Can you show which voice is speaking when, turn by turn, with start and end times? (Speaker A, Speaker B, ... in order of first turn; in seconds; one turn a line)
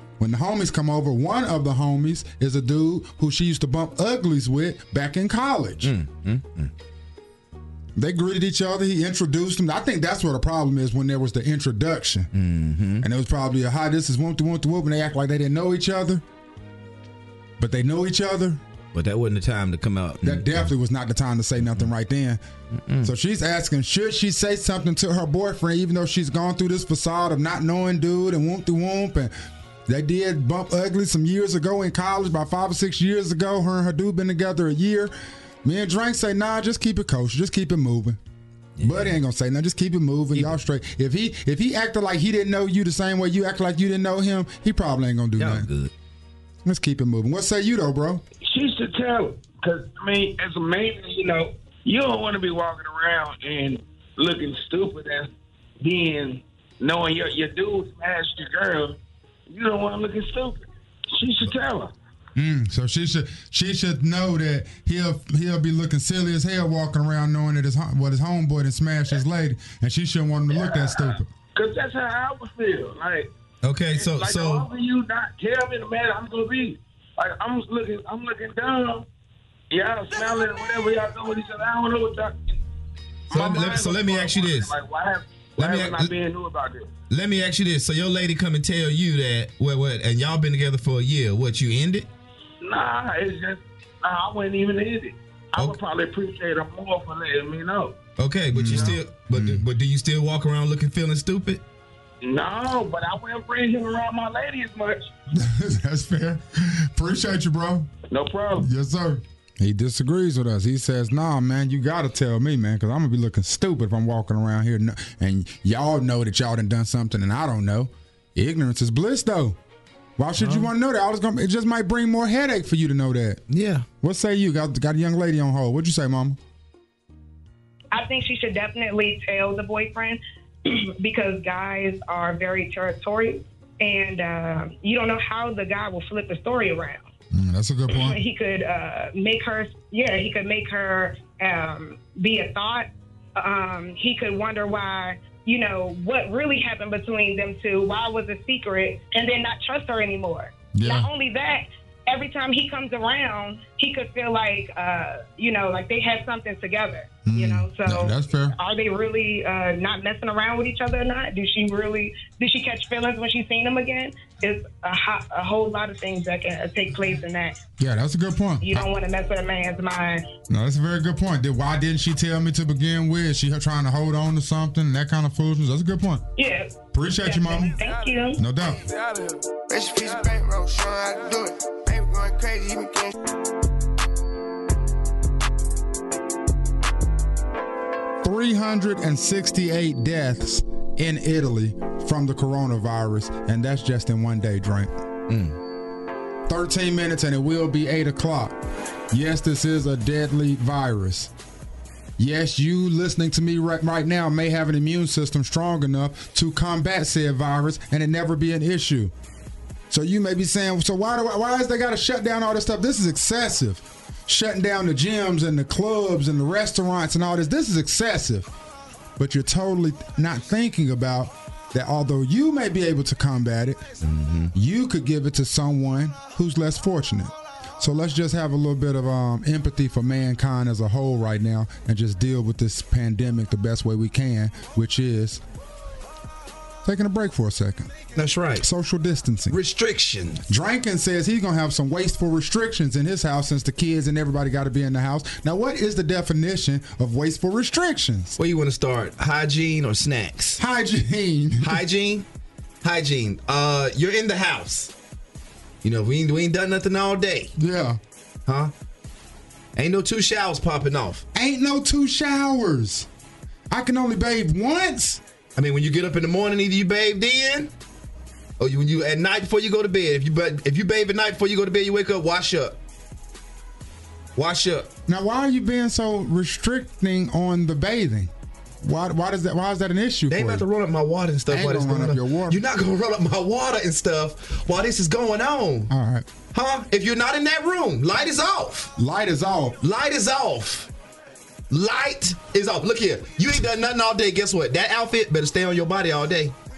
Speaker A: 0.2-5.9
Speaker B: 5.8-6.7
Speaker A: 8.0-12.3
Speaker B: 12.3-13.0
Speaker A: 13.0-16.2
Speaker A: 17.6-18.6
Speaker B: 18.9-20.7
Speaker A: 20.2-22.4
Speaker B: 21.6-21.9
Speaker B: 22.7-23.1
Speaker A: 23.0-29.3
Speaker A: 29.9-35.1
Speaker A: 35.6-38.2
Speaker B: 38.8-39.2
Speaker A: 38.8-45.7
Speaker B: 45.4-45.9
Speaker A: 46.6-48.2
Speaker C: 48.4-55.3
Speaker C: 55.8-59.0
Speaker C: 59.5-61.9
Speaker A: 62.4-71.3
Speaker C: 70.5-73.3
Speaker B: 73.6-74.7
Speaker C: 73.9-79.0
Speaker C: 79.7-82.6
Speaker C: 83.3-86.9
Speaker B: 83.3-84.7
Speaker B: 85.6-86.1
Speaker B: 87.1-92.1
Speaker C: 92.6-98.0
Speaker B: 98.2-101.6
Speaker A: 98.5-99.6
Speaker C: 102.2-105.1
Speaker A: 105.3-107.9
Speaker C: 108.1-108.7
Speaker A: 108.6-119.6
Speaker A: 120.2-123.4
Speaker B: 120.4-120.7
Speaker B: 123.5-123.8
Speaker A: 124.0-126.4
Speaker D: 127.9-137.1
Speaker A: 137.3-138.2
Speaker D: 137.9-167.6
Speaker A: 150.7-151.1
Speaker A: 157.2-158.6
Speaker A: 167.8-168.9
Speaker D: 168.6-170.2
Speaker A: 170.5-176.2
Speaker D: 176.4-178.4
Speaker A: 176.9-177.7
Speaker A: 178.4-178.8
Speaker E: 178.8-183.1
Speaker A: 188.2-194.9
Speaker B: 195.3-195.6
Speaker A: 196.5-198.6
Speaker A: 199.1-201.3
Speaker A: 202.2-209.1
Speaker A: 209.9-218.5
Speaker A: 219.2-223.8
Speaker B: 224.0-224.5
Speaker A: 224.5-235.4
Speaker A: 236.8-237.9
Speaker B: 238.1-238.7
Speaker A: 238.6-239.6
Speaker B: 239.5-240.4
Speaker A: 240.5-248.4
Speaker B: 248.4-250.6
Speaker A: 250.6-251.8
Speaker B: 251.6-252.2
Speaker B: 252.8-254.9
Speaker B: 255.8-257.5
Speaker A: 257.6-258.0
Speaker B: 258.4-258.7
Speaker B: 259.8-261.2
Speaker A: 261.3-263.1
Speaker A: 263.7-265.2
Speaker B: 265.6-267.7
Speaker B: 268.6-272.8
Speaker B: 274.4-274.9
Speaker A: 275.1-278.3
Speaker A: 278.8-280.6
Speaker B: 280.3-285.9
Speaker A: 281.5-282.6
Speaker A: 285.9-286.3
Speaker B: 286.5-288.9
Speaker A: 289.0-289.8
Speaker B: 289.8-290.9
Speaker B: 291.7-296.5